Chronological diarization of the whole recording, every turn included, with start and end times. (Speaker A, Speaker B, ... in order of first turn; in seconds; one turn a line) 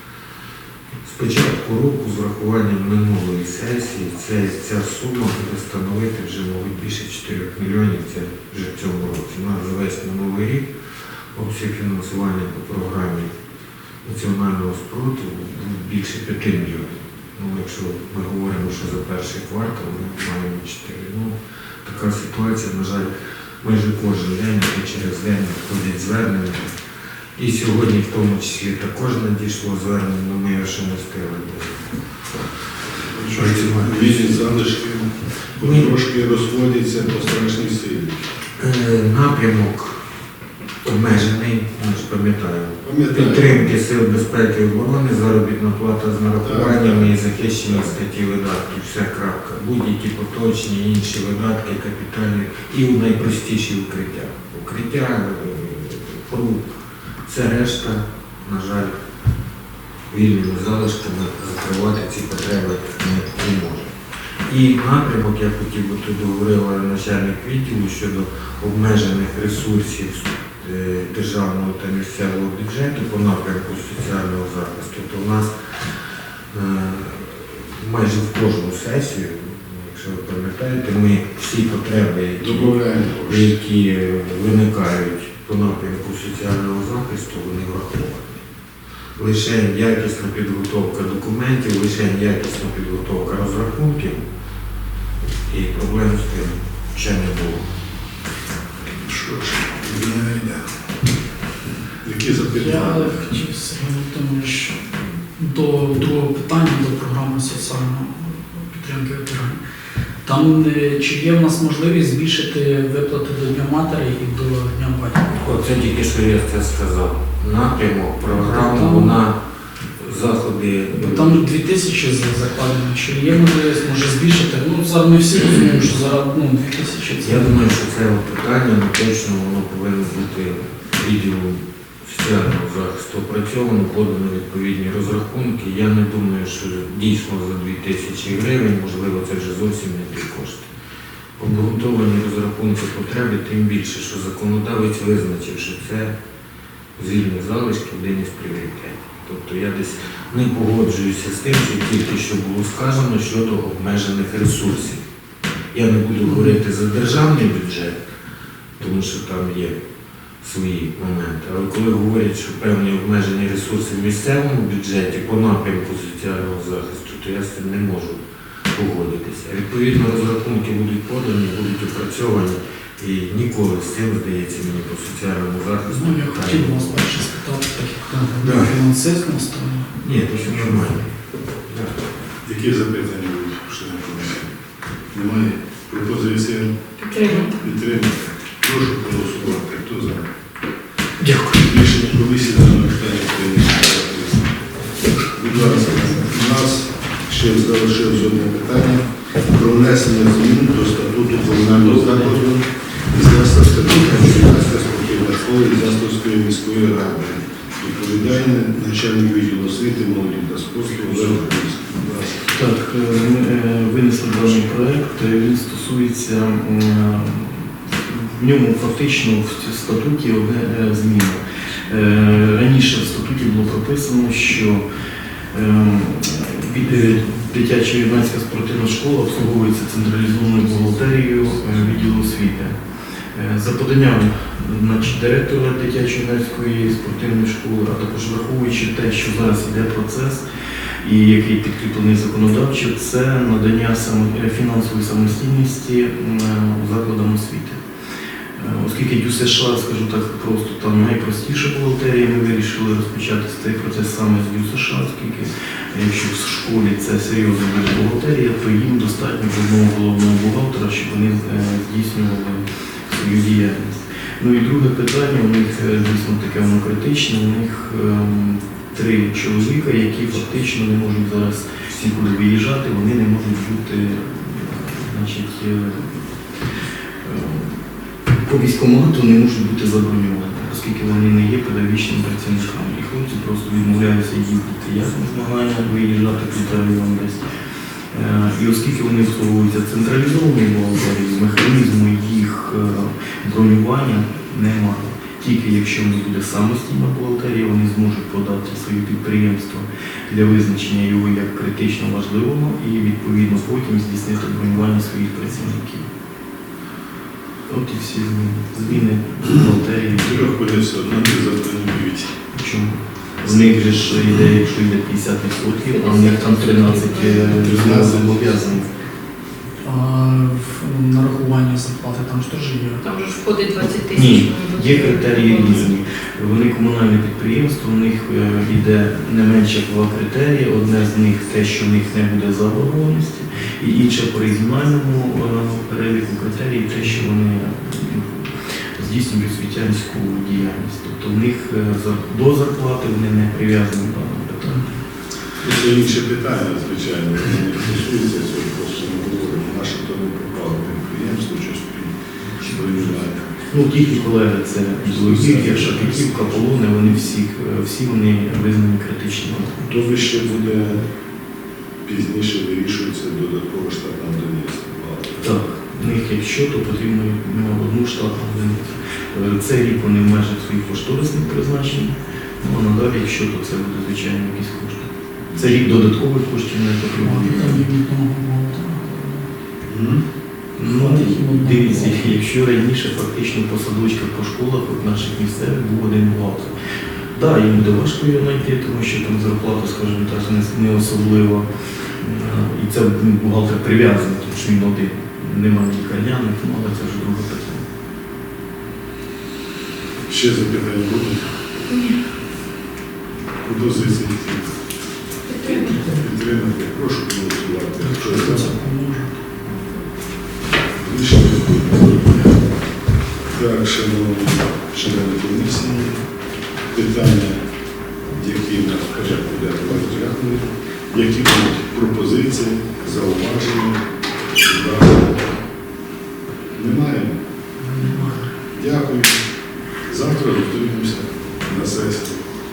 Speaker A: 1.0-10.7
Speaker A: 11.3-13.3
Speaker A: 14.0-26.7
Speaker A: 27.4-31.9
Speaker B: 33.1-38.2
Speaker A: 33.3-34.4
Speaker A: 35.6-35.9
Speaker A: 38.6-40.0
Speaker A: 40.8-56.7
Speaker B: 42.8-43.7
Speaker B: 46.4-47.1
Speaker A: 57.2-58.9
Speaker A: 60.1-63.9
Speaker A: 64.4-75.5
Speaker A: 76.5-88.4
Speaker B: 82.4-83.6
Speaker A: 89.2-94.2
Speaker A: 95.5-97.7
Speaker B: 98.9-100.7
Speaker B: 102.0-103.3
Speaker C: 102.6-109.6
Speaker C: 110.2-115.3
Speaker A: 115.3-119.3
Speaker C: 118.4-119.1
Speaker A: 120.0-121.5
Speaker C: 120.9-127.5
Speaker A: 127.2-140.7
Speaker A: 141.4-146.1
Speaker A: 147.0-155.0
Speaker A: 155.7-158.0
Speaker A: 158.8-159.8
Speaker A: 160.4-177.1
Speaker C: 175.9-180.0
Speaker A: 178.4-178.8
Speaker A: 180.0-181.9
Speaker B: 182.4-184.5
Speaker B: 185.1-186.7
Speaker D: 187.0-187.6
Speaker B: 187.3-190.2
Speaker C: 191.2-191.6
Speaker B: 191.6-194.5
Speaker B: 195.3-212.5
Speaker E: 212.4-224.8
Speaker E: 225.5-232.8
Speaker E: 233.3-240.4
Speaker E: 241.0-247.8
Speaker E: 248.6-287.6
Speaker E: 288.1-306.1
Speaker E: 307.7-310.5
Speaker B: 310.1-312.4
Speaker E: 312.5-318.9
Speaker B: 313.4-313.8
Speaker D: 315.9-317.7
Speaker B: 317.6-318.6
Speaker C: 319.8-323.0
Speaker D: 323.0-325.9
Speaker E: 324.1-344.9
Speaker B: 345.6-353.6
Speaker E: 353.7-359.8
Speaker B: 355.0-357.1
Speaker B: 359.8-361.0
Speaker B: 362.0-365.5
Speaker E: 365.4-377.9
Speaker B: 375.5-375.9
Speaker C: 377.2-379.5
Speaker B: 379.9-380.2
Speaker E: 380.8-386.8
Speaker C: 380.9-382.4
Speaker E: 387.3-391.7
Speaker E: 392.2-397.8
Speaker B: 400.3-401.5
Speaker B: 403.6-404.7
Speaker B: 405.6-408.7
Speaker C: 408.0-409.4
Speaker B: 411.0-412.6
Speaker B: 413.5-416.2
Speaker B: 416.9-417.6
Speaker B: 418.3-424.0
Speaker B: 424.6-425.5
Speaker B: 426.7-427.4
Speaker C: 427.8-428.5
Speaker B: 428.7-429.4
Speaker B: 430.1-432.4